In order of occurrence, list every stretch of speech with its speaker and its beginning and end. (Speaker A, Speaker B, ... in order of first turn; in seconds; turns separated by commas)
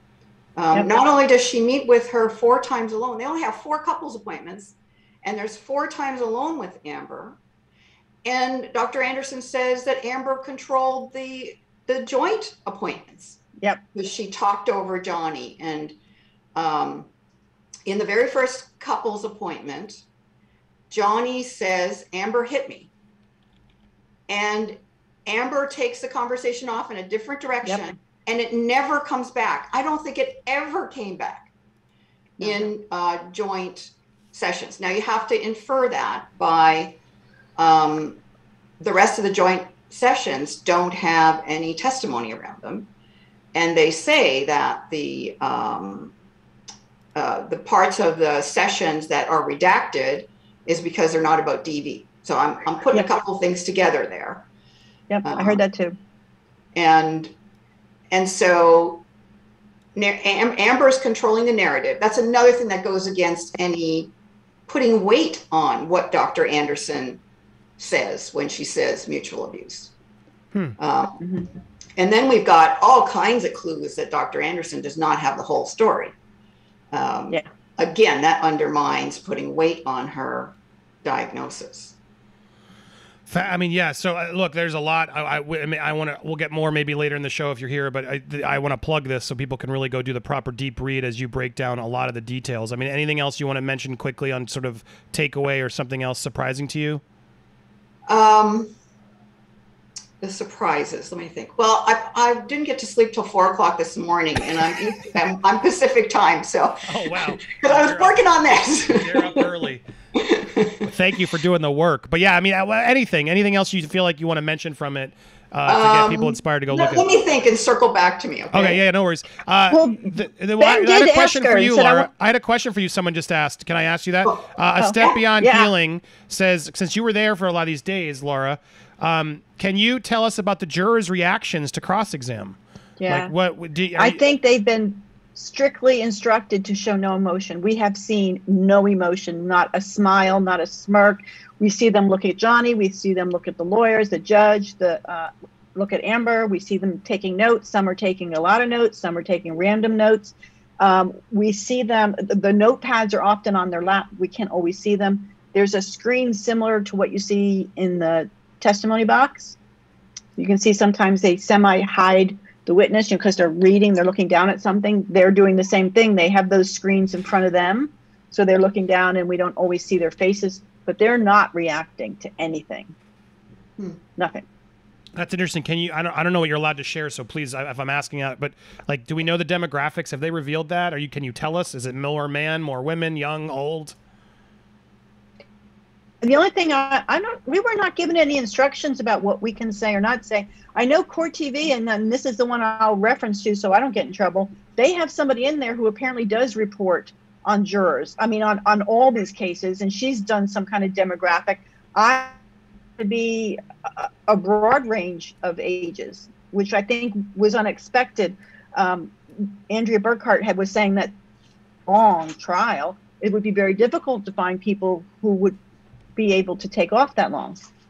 Speaker A: 0.6-7.4, Speaker A: 8.2-13.4, Speaker A: 13.9-15.9, Speaker A: 16.5-17.1, Speaker A: 17.9-20.0, Speaker A: 20.9-22.9, Speaker A: 24.3-31.5, Speaker B: 32.4-32.7, Speaker A: 32.4-37.0, Speaker A: 37.6-38.2, Speaker A: 38.8-42.9, Speaker A: 43.5-46.1, Speaker A: 47.1-54.5, Speaker B: 55.1-56.0, Speaker A: 55.2-55.6, Speaker A: 56.7-57.3, Speaker A: 58.1-59.0, Speaker A: 59.9-64.1, Speaker A: 64.7-67.2, Speaker A: 67.8-69.9, Speaker A: 70.8-71.2, Speaker B: 71.2-71.5, Speaker A: 72.0-76.1, Speaker A: 76.9-81.9, Speaker C: 83.3-97.0, Speaker A: 98.1-98.7, Speaker A: 100.2-109.4, Speaker C: 106.8-109.8, Speaker A: 110.2-110.9, Speaker C: 110.8-117.1, Speaker A: 115.7-118.8, Speaker C: 118.5-134.2, Speaker B: 119.7-122.1, Speaker B: 124.8-125.7, Speaker B: 133.0-133.3, Speaker B: 133.9-159.6, Speaker B: 160.4-172.9, Speaker B: 174.2-174.4, Speaker C: 175.2-183.9, Speaker B: 186.2-202.3, Speaker B: 203.0-211.1, Speaker B: 211.9-215.6, Speaker B: 216.2-217.6